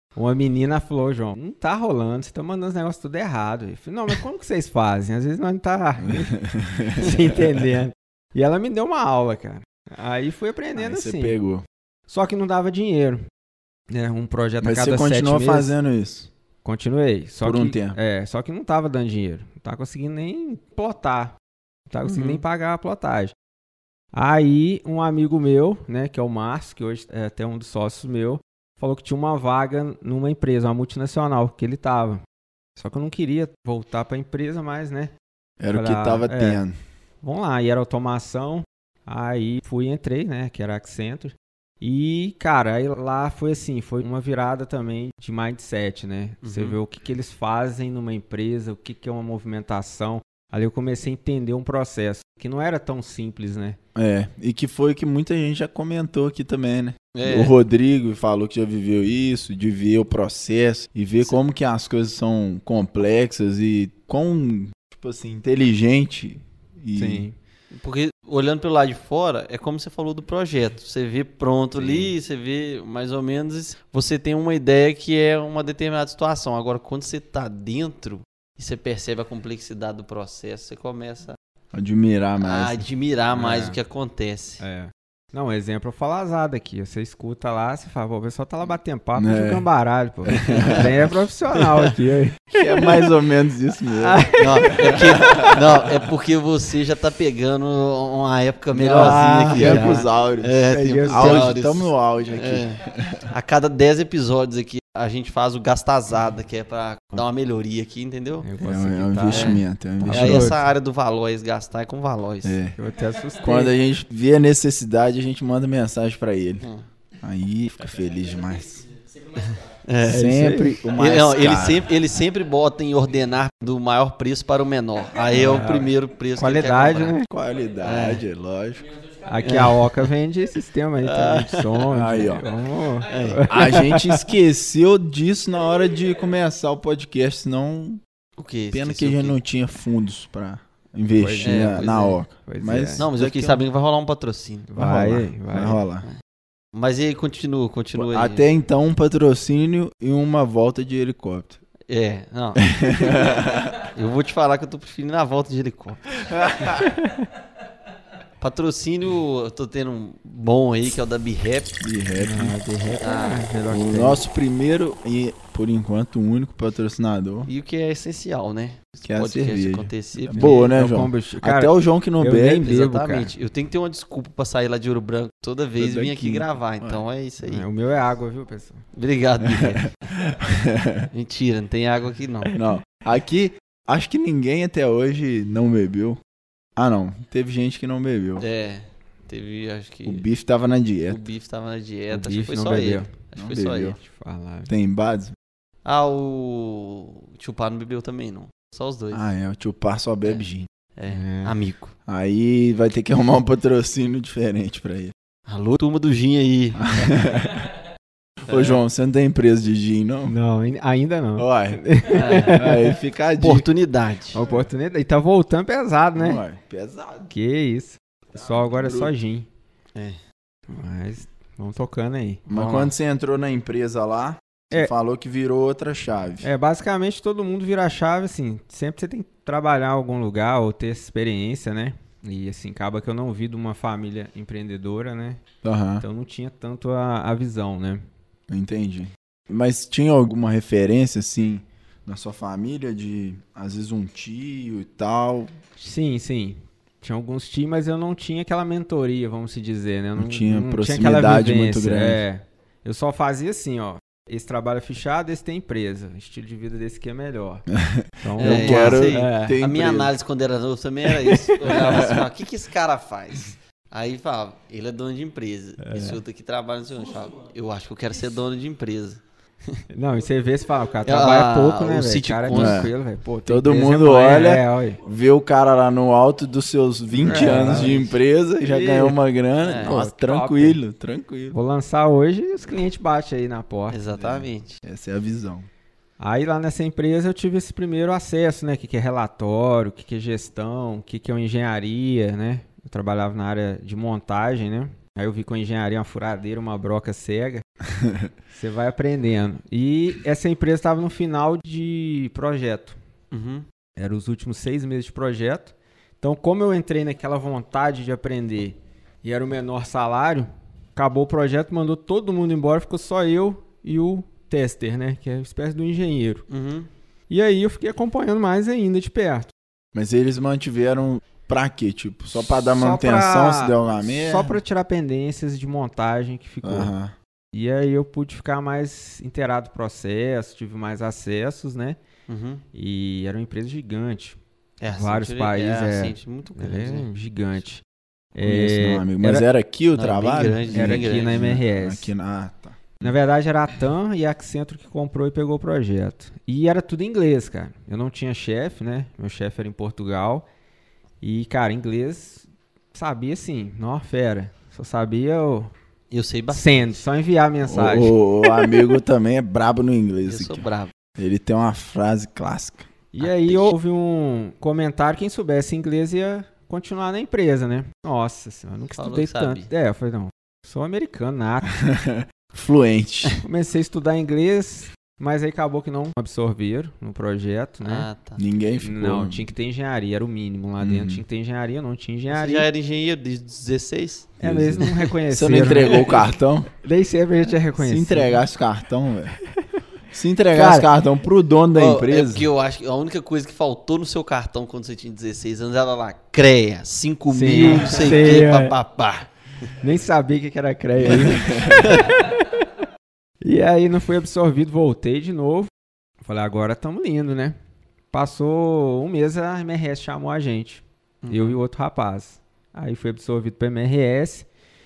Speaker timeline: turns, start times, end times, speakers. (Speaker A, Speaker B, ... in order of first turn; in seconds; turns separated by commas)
Speaker A: 0.2-6.3, Speaker B: 6.0-7.4, Speaker A: 7.0-11.4, Speaker B: 10.8-11.7, Speaker A: 12.1-13.2, Speaker A: 13.9-15.8, Speaker B: 14.6-16.3, Speaker A: 16.6-21.4, Speaker B: 17.4-18.0, Speaker A: 21.9-23.3, Speaker C: 22.1-22.4, Speaker A: 24.1-32.2, Speaker A: 32.8-35.1, Speaker B: 35.6-36.8, Speaker A: 35.7-36.6, Speaker A: 37.2-53.8, Speaker C: 46.4-46.8, Speaker B: 54.0-67.3, Speaker C: 57.1-57.5, Speaker A: 67.0-67.3, Speaker C: 67.7-81.4, Speaker B: 81.7-82.8, Speaker C: 82.4-84.6, Speaker A: 83.3-83.8, Speaker A: 84.6-93.0, Speaker B: 89.2-89.7, Speaker B: 90.3-91.1, Speaker C: 90.4-90.9, Speaker C: 91.6-91.9, Speaker B: 92.5-95.6, Speaker A: 94.0-95.5, Speaker C: 94.4-108.5, Speaker B: 98.7-103.3, Speaker A: 98.8-100.1, Speaker A: 100.7-101.6, Speaker A: 108.4-110.7, Speaker B: 108.6-110.5, Speaker C: 109.3-112.6, Speaker B: 112.4-112.8, Speaker A: 112.8-113.7, Speaker B: 113.4-116.7, Speaker C: 116.6-116.9, Speaker B: 117.2-118.9, Speaker C: 119.4-120.3, Speaker B: 120.0-121.9, Speaker A: 120.0-120.8, Speaker C: 120.9-127.2, Speaker A: 125.3-127.3, Speaker B: 127.3-128.9, Speaker C: 127.8-128.2, Speaker A: 129.3-134.2, Speaker C: 129.4-130.1, Speaker C: 131.0-131.9, Speaker B: 131.9-132.5, Speaker C: 133.1-133.5, Speaker B: 133.5-138.0, Speaker C: 138.4-139.4, Speaker B: 138.7-143.6, Speaker A: 141.1-143.1, Speaker C: 141.4-142.2, Speaker C: 143.0-144.7, Speaker A: 144.7-145.8, Speaker B: 144.8-146.1, Speaker C: 146.7-148.4, Speaker B: 147.9-151.6, Speaker C: 151.9-153.1, Speaker B: 152.6-153.8, Speaker C: 153.8-156.2, Speaker B: 156.3-156.8, Speaker A: 156.9-157.3, Speaker C: 158.4-161.8, Speaker B: 161.8-162.6, Speaker A: 162.2-164.2, Speaker C: 162.9-163.5, Speaker B: 163.7-167.5, Speaker C: 167.5-170.7, Speaker B: 169.0-172.7, Speaker A: 170.3-173.3, Speaker C: 172.6-177.7, Speaker B: 175.8-177.0, Speaker A: 177.4-178.8, Speaker C: 178.9-180.1, Speaker B: 179.6-181.1, Speaker C: 181.1-182.6, Speaker B: 182.6-186.2, Speaker B: 186.8-188.5, Speaker C: 188.4-190.2, Speaker B: 190.1-191.2, Speaker C: 191.1-194.0, Speaker A: 192.1-193.2, Speaker B: 193.4-194.0, Speaker A: 194.0-194.7, Speaker B: 194.7-195.3, Speaker C: 195.8-199.2, Speaker B: 199.1-200.7, Speaker C: 201.0-201.9, Speaker A: 201.1-201.6, Speaker B: 202.1-205.1, Speaker C: 205.5-206.9, Speaker B: 206.8-207.7, Speaker C: 208.5-208.8, Speaker B: 208.5-210.3, Speaker A: 210.3-213.0, Speaker B: 211.4-211.8, Speaker C: 212.1-212.6, Speaker B: 212.5-213.7, Speaker C: 213.4-214.4, Speaker A: 214.3-216.4, Speaker B: 214.4-214.7, Speaker B: 216.2-217.3, Speaker A: 217.3-219.5, Speaker B: 218.4-219.1, Speaker C: 219.9-220.2, Speaker A: 220.7-222.4, Speaker C: 222.5-222.9, Speaker B: 222.5-226.5, Speaker A: 226.4-235.4, Speaker B: 235.6-236.0, Speaker A: 236.0-238.0, Speaker B: 238.5-245.5, Speaker A: 245.8-257.7, Speaker B: 250.2-252.2, Speaker B: 257.7-260.1, Speaker A: 258.2-259.6, Speaker C: 258.4-269.8, Speaker B: 261.6-262.2, Speaker A: 265.8-266.2, Speaker A: 269.9-275.0, Speaker C: 271.0-272.9, Speaker B: 272.5-272.9, Speaker B: 273.4-281.6, Speaker A: 277.2-279.2, Speaker C: 277.3-278.1, Speaker C: 279.6-280.0, Speaker A: 279.8-280.8, Speaker A: 281.5-284.0, Speaker C: 283.9-284.8, Speaker B: 284.1-285.7, Speaker A: 286.2-297.6, Speaker B: 298.0-298.3, Speaker A: 298.5-303.0, Speaker C: 303.3-303.7, Speaker A: 304.0-316.5, Speaker C: 316.5-316.9, Speaker A: 317.3-319.5, Speaker B: 319.9-324.6, Speaker A: 322.7-326.9, Speaker B: 326.6-327.1, Speaker A: 327.5-332.0, Speaker C: 332.3-332.6, Speaker A: 332.7-334.4, Speaker C: 334.8-337.1, Speaker A: 334.9-337.8, Speaker A: 338.4-339.5, Speaker B: 338.4-343.1, Speaker C: 339.9-341.5, Speaker A: 340.7-342.1, Speaker A: 343.0-350.5, Speaker A: 351.2-355.7, Speaker C: 356.1-357.0, Speaker A: 356.5-358.8, Speaker B: 357.7-360.6, Speaker C: 360.2-360.9, Speaker B: 361.2-362.9, Speaker A: 363.1-371.7, Speaker C: 363.2-363.7, Speaker C: 369.0-369.7, Speaker B: 371.8-373.4, Speaker A: 373.4-378.1, Speaker C: 377.8-378.4, Speaker B: 378.4-379.4, Speaker A: 378.8-382.7, Speaker B: 380.8-381.2, Speaker C: 382.3-385.1, Speaker A: 384.4-386.3, Speaker B: 384.4-386.7, Speaker C: 385.9-386.2, Speaker A: 386.8-388.4, Speaker B: 387.8-389.4, Speaker B: 390.1-392.5, Speaker A: 390.5-390.9, Speaker C: 391.7-399.7, Speaker A: 397.3-398.8, Speaker A: 399.8-402.7, Speaker B: 401.0-401.9, Speaker C: 401.8-402.1, Speaker A: 403.4-405.7, Speaker A: 406.2-407.6, Speaker A: 408.1-414.5, Speaker C: 411.2-411.6